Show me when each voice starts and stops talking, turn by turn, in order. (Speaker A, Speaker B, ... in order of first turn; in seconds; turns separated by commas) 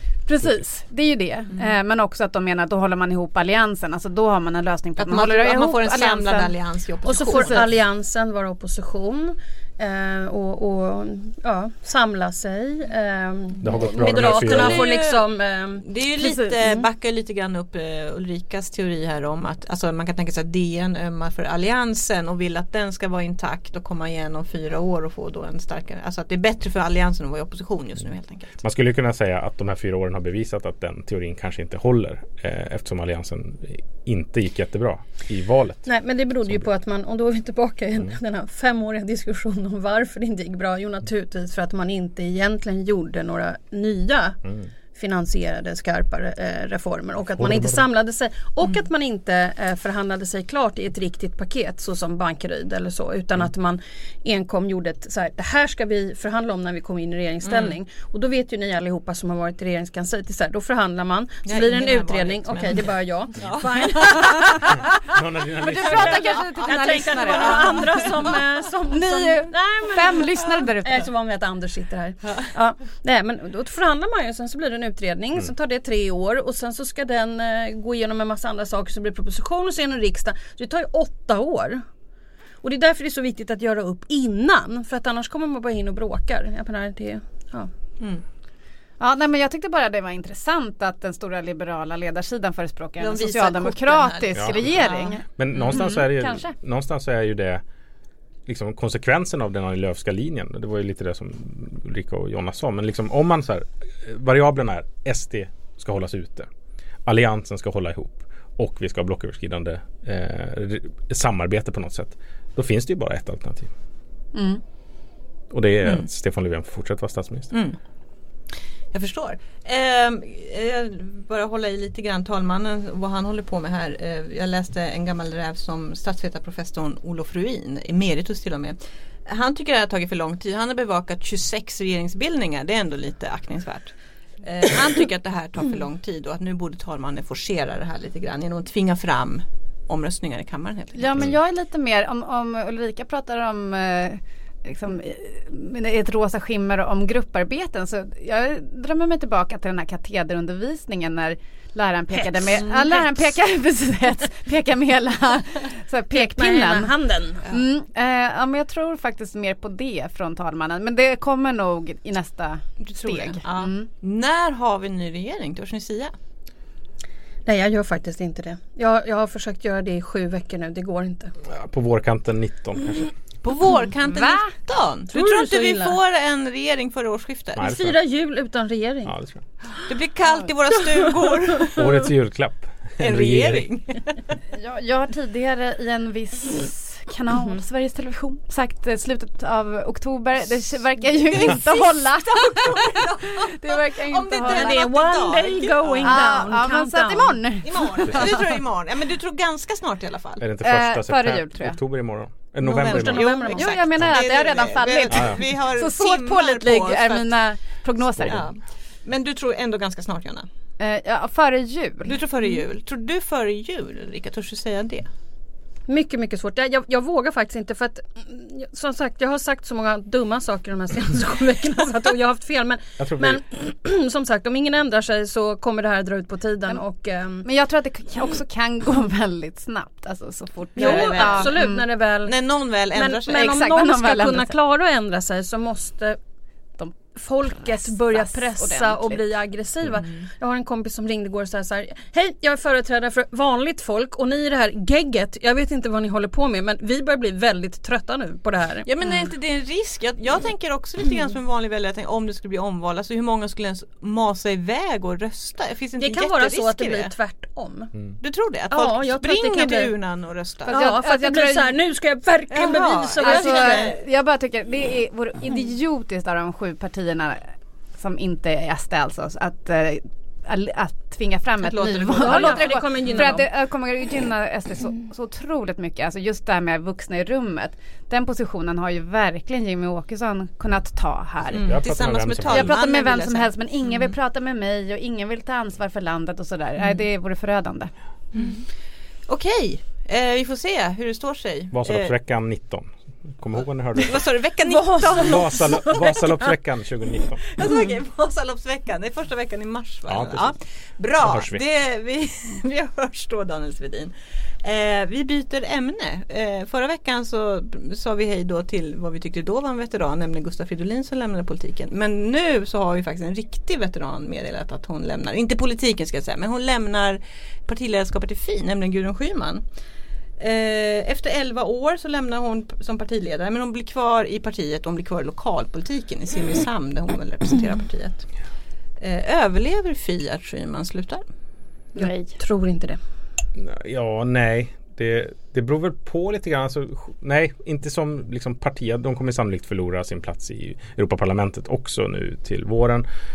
Speaker A: 0.3-6.5, Speaker B: 5.0-7.6, Speaker C: 7.1-15.9, Speaker A: 7.2-7.7, Speaker D: 13.6-14.8, Speaker B: 14.0-15.3, Speaker B: 15.8-28.6, Speaker A: 16.2-16.8, Speaker D: 28.6-35.9, Speaker C: 35.9-44.4, Speaker C: 44.9-65.0, Speaker D: 47.4-47.8, Speaker B: 57.4-57.8, Speaker B: 61.5-64.8, Speaker D: 65.1-66.2, Speaker B: 65.6-68.1, Speaker A: 65.7-68.4, Speaker C: 65.7-81.8, Speaker A: 68.9-71.1, Speaker C: 82.6-87.7, Speaker A: 89.0-96.5, Speaker B: 93.0-95.9, Speaker D: 94.3-97.6, Speaker D: 98.5-106.5, Speaker D: 107.1-113.7, Speaker A: 114.3-114.6, Speaker D: 115.5-117.5, Speaker B: 117.5-117.8, Speaker B: 118.9-141.3, Speaker A: 141.0-156.9, Speaker B: 152.5-153.3, Speaker C: 156.1-157.4, Speaker A: 157.5-163.9, Speaker B: 162.8-166.1, Speaker C: 167.5-171.3, Speaker D: 171.5-173.1, Speaker B: 173.4-177.7, Speaker A: 174.1-174.5, Speaker C: 175.1-176.0, Speaker D: 177.6-178.0, Speaker C: 177.6-179.8, Speaker D: 179.1-179.4, Speaker B: 179.9-181.9, Speaker C: 180.9-181.9, Speaker D: 181.7-183.7, Speaker B: 183.0-184.2, Speaker A: 184.6-194.8, Speaker B: 192.7-196.5, Speaker C: 194.5-197.4, Speaker A: 196.0-198.4, Speaker B: 197.6-200.4, Speaker D: 200.4-203.3, Speaker A: 200.6-201.8, Speaker B: 202.6-207.4, Speaker C: 202.7-203.9, Speaker A: 203.5-208.4, Speaker D: 205.1-205.4, Speaker B: 208.2-210.5, Speaker D: 208.2-208.4, Speaker A: 210.8-212.2, Speaker B: 212.1-215.1, Speaker C: 215.9-227.5, Speaker D: 223.0-223.4, Speaker A: 227.4-231.8, Speaker B: 230.8-231.7, Speaker C: 230.8-236.2, Speaker B: 232.2-233.7, Speaker A: 233.4-234.5, Speaker A: 236.8-239.2, Speaker C: 237.1-248.9, Speaker B: 248.8-257.1, Speaker C: 256.0-257.9, Speaker B: 258.2-260.8, Speaker C: 258.7-259.9, Speaker C: 260.7-263.9, Speaker A: 260.7-261.7, Speaker B: 262.5-264.0, Speaker A: 263.2-281.8, Speaker B: 271.6-273.4, Speaker C: 271.8-273.5, Speaker B: 281.5-284.1, Speaker D: 281.6-282.8, Speaker A: 282.4-287.9, Speaker B: 288.3-288.6, Speaker B: 289.3-292.1, Speaker D: 291.7-294.2, Speaker B: 294.0-295.9, Speaker D: 295.1-297.4, Speaker B: 297.5-319.6, Speaker D: 300.1-300.6, Speaker D: 301.2-301.6, Speaker B: 320.4-328.3, Speaker B: 329.0-331.2, Speaker A: 332.0-332.3, Speaker C: 332.0-333.0, Speaker D: 333.6-343.1